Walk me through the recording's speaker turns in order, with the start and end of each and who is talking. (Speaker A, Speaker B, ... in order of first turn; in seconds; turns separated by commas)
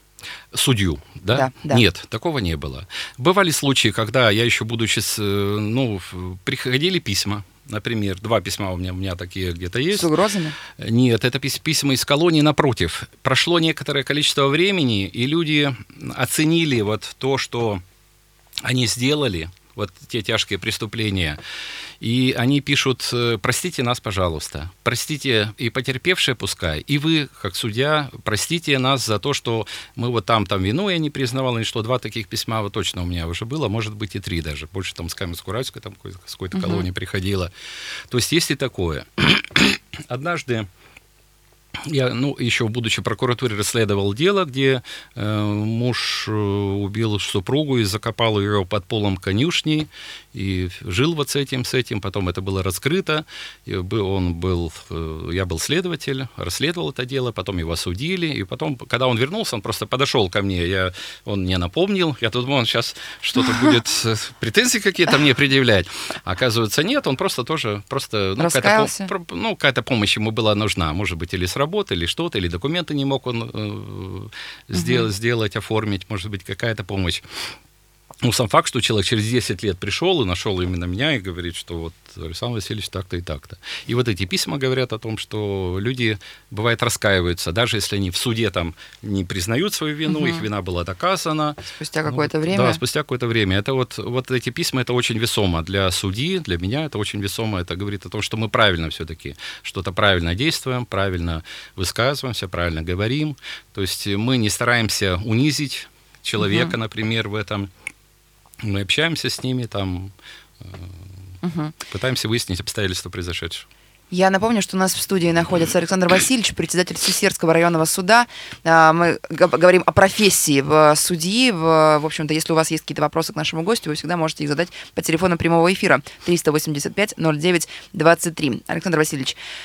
Speaker A: 0.5-10.1, Speaker B: 1.3-1.8, Speaker B: 9.9-10.6, Speaker A: 10.8-17.8, Speaker A: 18.6-21.4, Speaker A: 22.0-37.5, Speaker B: 36.5-36.9, Speaker A: 38.1-40.7, Speaker A: 41.8-77.2, Speaker B: 68.4-69.1, Speaker B: 74.8-75.1, Speaker A: 78.2-107.7, Speaker B: 90.1-90.5, Speaker B: 91.7-92.8, Speaker B: 106.4-106.7, Speaker A: 108.6-111.1, Speaker B: 111.4-111.8, Speaker A: 111.9-113.7, Speaker B: 114.1-129.4